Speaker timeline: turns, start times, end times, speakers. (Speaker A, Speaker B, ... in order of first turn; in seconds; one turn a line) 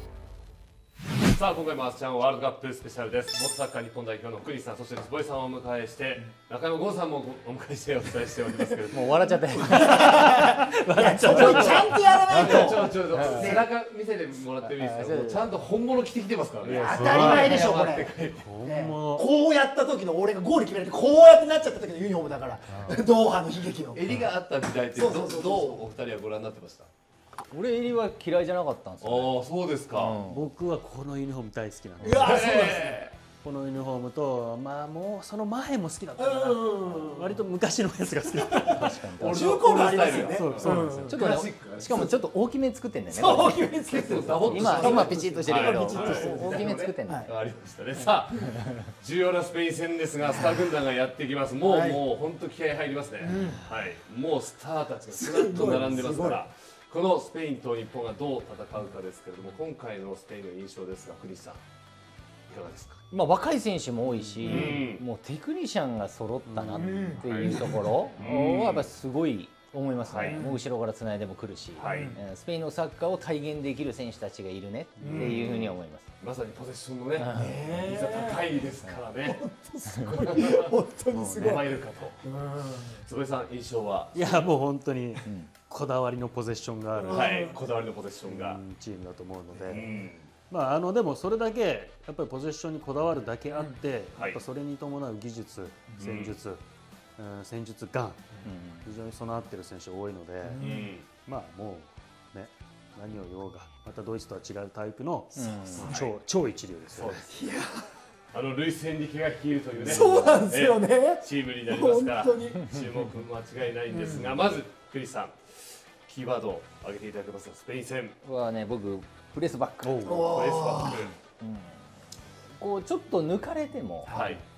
Speaker A: 1.3-10.0
Speaker B: 8.9-13.6
Speaker C: 9.7-13.7
Speaker A: 11.2-18.5
Speaker B: 14.6-15.4
Speaker C: 16.6-24.2
Speaker D: 16.7-17.6
Speaker B: 17.2-17.6
Speaker D: 18.4-19.2
Speaker A: 23.9-26.9
Speaker C: 24.9-25.8
Speaker B: 27.5-29.3
Speaker A: 29.0-30.2
Speaker B: 29.9-30.5
Speaker D: 30.3-32.5
Speaker C: 32.0-33.0
Speaker A: 32.1-33.1
Speaker D: 33.4-39.0
Speaker C: 36.2-37.4
Speaker C: 38.3-41.5
Speaker B: 38.7-39.5
Speaker A: 39.2-42.1
Speaker D: 40.3-41.1
Speaker B: 40.9-47.3
Speaker C: 43.1-47.3
Speaker A: 43.9-61.6
Speaker C: 51.6-52.0
Speaker C: 53.2-53.6
Speaker C: 55.1-56.4
Speaker A: 62.5-63.0
Speaker B: 63.1-76.0
Speaker D: 64.1-64.6
Speaker A: 64.5-65.0
Speaker C: 64.5-64.8
Speaker D: 66.5-67.1
Speaker C: 66.7-67.8
Speaker A: 67.2-68.9
Speaker A: 70.0-70.4
Speaker C: 70.2-70.6
Speaker A: 71.8-72.1
Speaker C: 71.9-72.2
Speaker C: 75.0-75.4
Speaker A: 75.0-79.4
Speaker C: 77.3-78.5
Speaker C: 79.2-81.7
Speaker A: 80.2-80.7
Speaker D: 81.1-81.7
Speaker A: 81.3-82.2
Speaker C: 82.2-83.0
Speaker A: 83.0-84.5
Speaker D: 84.1-87.2
Speaker C: 86.9-87.6
Speaker A: 87.1-88.6
Speaker D: 88.2-90.0
Speaker A: 89.5-90.3
Speaker D: 90.5-96.6
Speaker A: 96.0-96.4
Speaker D: 97.2-98.3
Speaker B: 98.4-98.8
Speaker D: 98.8-107.2
Speaker C: 100.4-100.9
Speaker A: 100.6-101.0
Speaker B: 105.3-106.0
Speaker C: 105.4-106.1
Speaker A: 105.7-106.0
Speaker A: 106.9-107.3
Speaker C: 107.3-107.9
Speaker A: 108.3-118.2
Speaker C: 109.8-112.6
Speaker C: 113.9-114.4
Speaker B: 118.2-120.4
Speaker D: 119.8-120.2
Speaker C: 120.0-121.1
Speaker A: 120.1-121.1
Speaker B: 121.4-121.8
Speaker B: 122.6-124.2
Speaker A: 124.1-124.4